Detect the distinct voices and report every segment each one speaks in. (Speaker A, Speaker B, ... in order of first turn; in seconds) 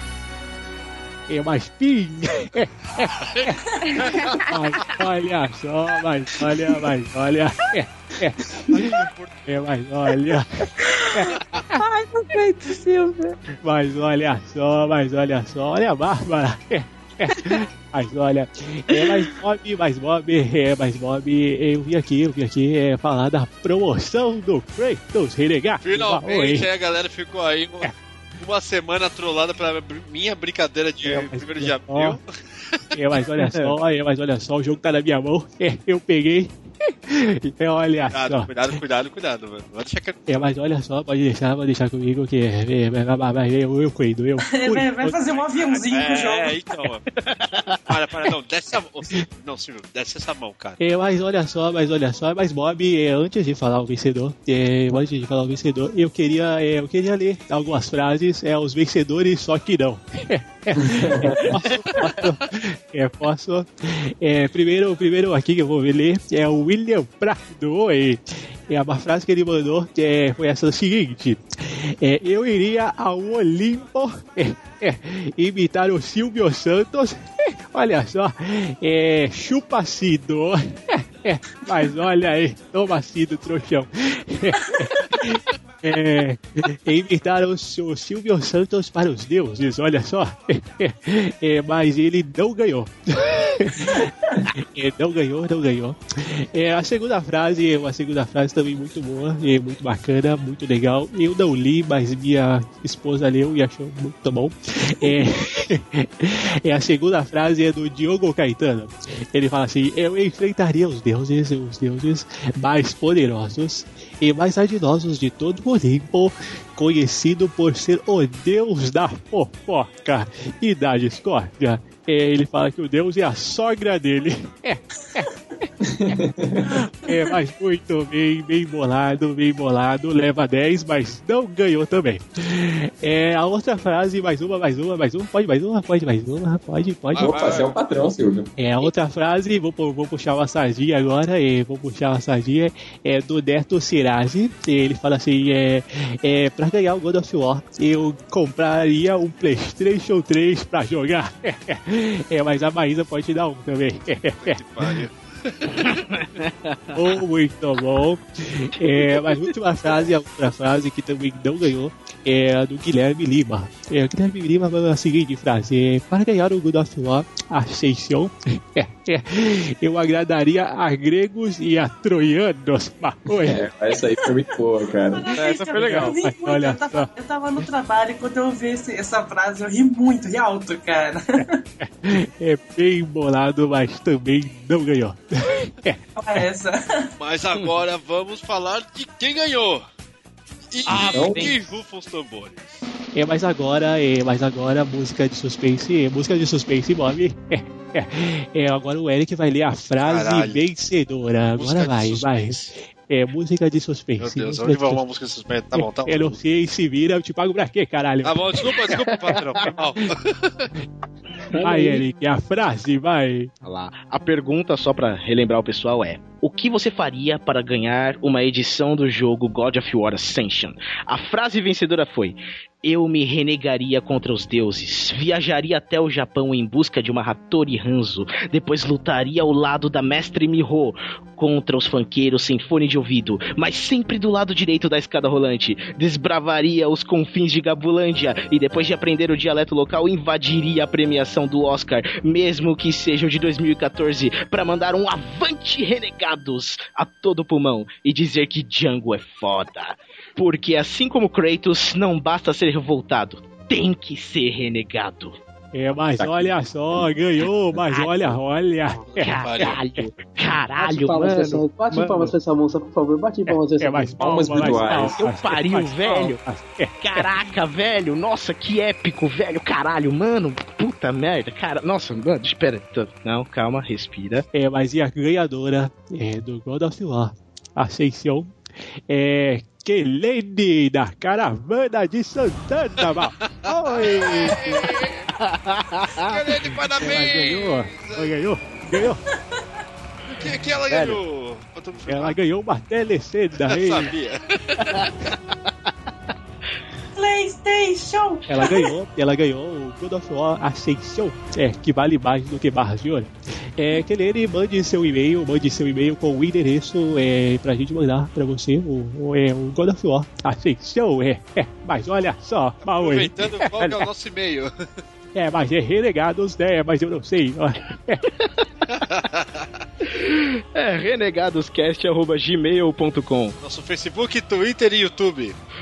Speaker A: 1.3-3.6, 4.5-8.9, 9.5-11.4, 13.6-26.7, 31.0-32.2, 32.9-38.8, 40.3-45.1, 50.8-125.3, 126.1-137.3, 138.6-155.0, 156.9-173.6, 175.7-177.1, 181.8-186.4, 193.1-205.0, 205.7-209.0, 211.6-213.5, 255.7-260.0, 261.9-262.3, 263.5-267.3, 274.5-278.5, 279.1-284.9, 287.0-289.2, 292.1-294.1, 298.5-313.9, 315.3-318.2
Speaker B: 3.1-4.9, 8.7-9.7, 11.4-11.7, 25.8-33.0, 38.1-40.3, 45.2-47.1, 47.9-50.8, 137.1-137.8, 154.4-156.2, 187.2-189.8, 190.7-192.8, 200.0-200.7, 201.5-202.7, 204.2-206.4, 208.2-210.7, 258.9-259.8, 283.4-285.3, 286.2-288.4, 290.3-292.4, 293.6-295.3, 312.8-314.7, 318.9-319.7, 323.6-325.6
Speaker C: 3.9-4.4, 10.8-13.3, 17.4-17.6, 18.9-19.3
Speaker D: 33.4-33.7, 47.1-47.9, 155.7-157.0, 158.7-159.5, 175.3-176.1, 190.9-191.6, 208.9-209.4, 213.6-255.4, 257.9-258.4, 259.1-261.6, 265.0-266.4, 267.0-274.4, 285.4-286.4, 290.9-291.2, 294.8-295.9, 318.3-318.7, 320.0-323.6
Speaker E: 44.4-46.6, 175.1-181.5, 186.2-187.1, 297.1-298.9
Speaker F: 60.7-61.6, 125.8-126.8, 137.2-138.5, 173.4-175.3, 190.9-191.5, 256.2-257.1, 264.2-265.3
Speaker G: 211.5-212.0, 260.8-264.2